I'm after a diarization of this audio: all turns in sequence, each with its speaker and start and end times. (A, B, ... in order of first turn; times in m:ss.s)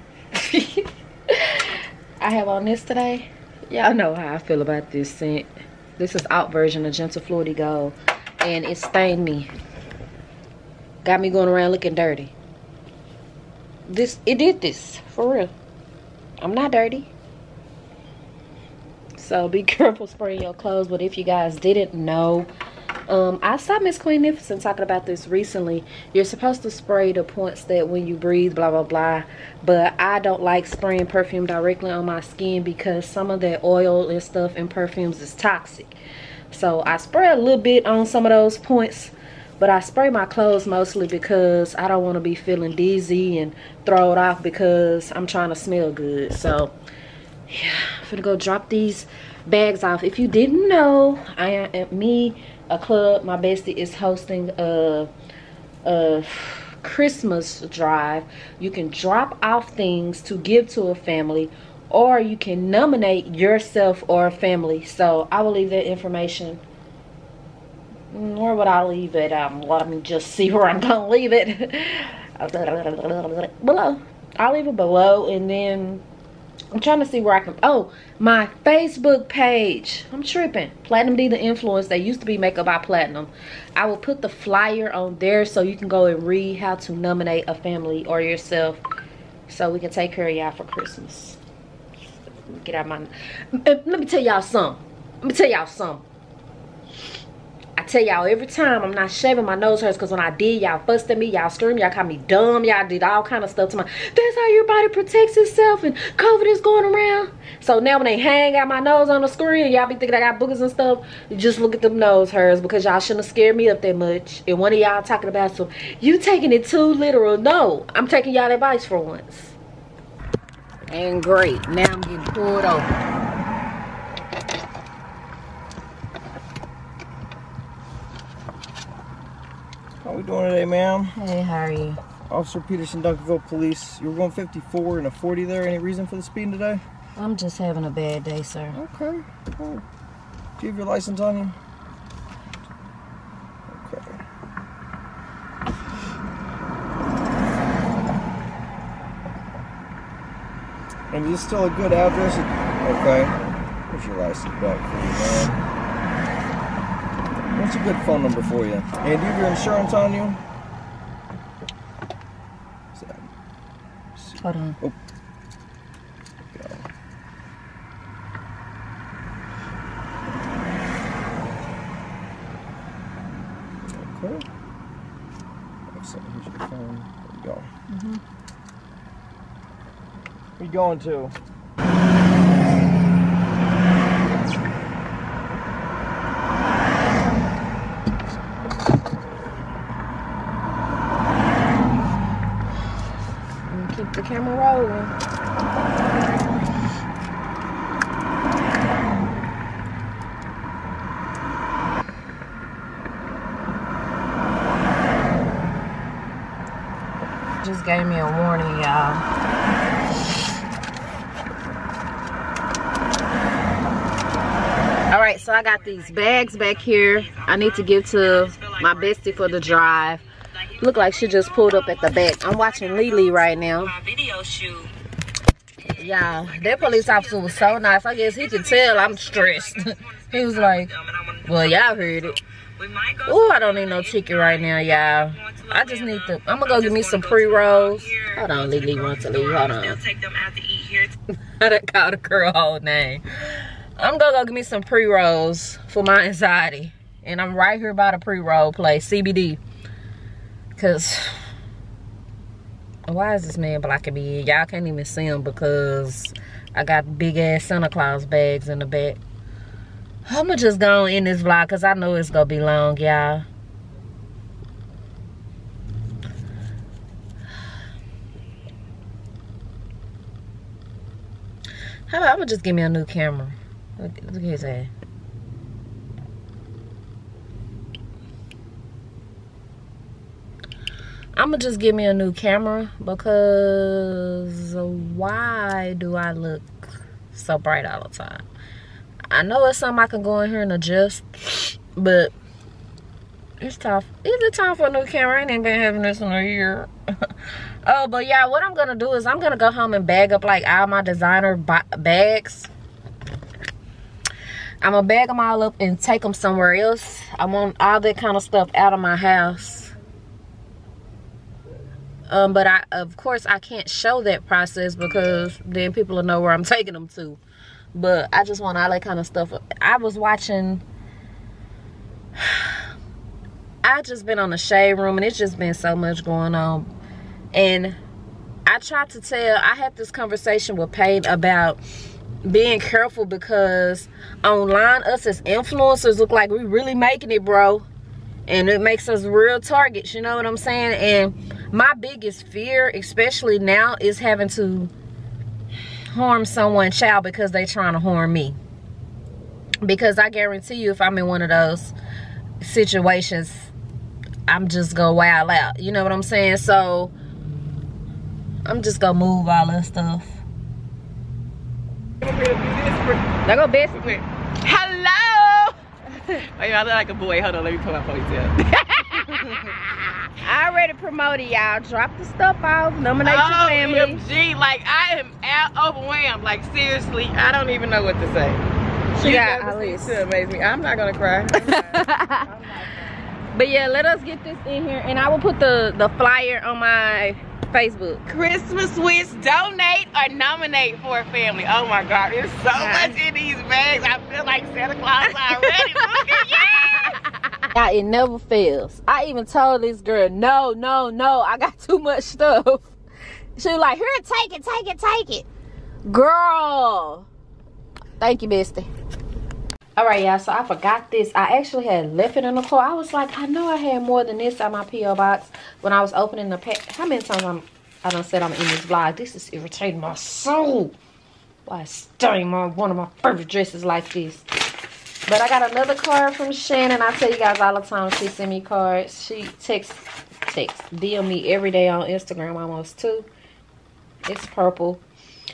0:00.3-0:09.5 A
0:11.0-0:12.4 A
0:13.9-0:15.5 A
0:16.4-0:17.1 A
0:19.2-0:22.5 A
0:23.1-0:36.0 A
0:36.5-0:46.8 A
0:47.5-0:55.1 A
0:55.8-1:06.6 A
1:08.1-1:16.0 A
1:16.7-1:28.8 A
1:29.5-1:31.4 A
1:32.5-1:36.0 A
1:37.8-1:59.6 A
2:00.9-2:02.9 A
2:10.0-2:11.2 B
2:11.1-2:12.0 A
2:12.3-2:16.8 B
2:17.2-2:18.8 A
2:18.7-2:19.8 B
2:20.6-2:21.6 B
2:23.7-2:24.2 B
2:31.1-2:33.3 B
2:33.9-2:35.6 B
2:37.5-2:40.4 B
2:43.0-2:43.3 B
2:44.2-2:45.0 B
2:44.4-2:44.8 A
2:46.5-2:46.9 B
2:53.9-2:54.5 B
2:55.9-2:57.7 B
2:57.9-2:58.2 A
3:00.6-3:01.3 B
3:13.7-3:15.1 A
3:27.6-3:29.2 A
3:35.1-3:40.2 A
3:40.8-3:44.0 A
3:44.1-3:44.8 C
3:45.9-3:52.4 A
3:52.8-3:53.2 C
3:53.2-4:00.0 A
3:57.0-3:58.3 C
3:59.4-4:01.1 C
4:01.5-4:09.6 A
4:10.8-4:11.4 A
4:13.1-4:19.2 A
4:20.3-4:23.4 A
4:32.1-4:34.9 A
4:41.4-4:48.4 A
4:49.3-4:52.3 A
4:53.6-4:57.3 A
4:57.8-5:02.7 A
5:04.8-5:09.9 A
5:12.3-5:17.4 A
5:17.9-5:20.8 A
5:22.4-5:22.8 A
5:23.8-5:26.9 A
5:27.5-5:28.0 A
5:28.7-5:31.8 A
5:32.4-5:37.9 A
5:38.5-5:44.9 A
5:46.1-5:48.6 A
5:49.8-5:51.9 A
5:52.6-5:53.7 A
5:54.5-5:57.1 A
5:58.6-6:00.4 A
6:02.2-6:03.3 C
6:03.4-6:04.1 A
6:03.9-6:05.7 C
6:06.4-6:09.8 C
6:10.4-6:14.2 A
6:13.2-6:18.6 C
6:19.1-6:23.1 C
6:19.2-6:20.2 A
6:21.6-6:22.5 A
6:23.5-6:28.3 A
6:28.3-6:37.2 C
6:32.7-6:33.2 A
6:35.4-6:36.6 A
6:37.7-6:42.8 A
6:43.6-6:45.5 A
6:46.1-6:47.3 A
6:48.2-6:48.9 A
6:50.0-7:01.0 A
7:01.7-7:04.5 A
7:05.3-7:13.3 A
7:14.3-7:15.0 A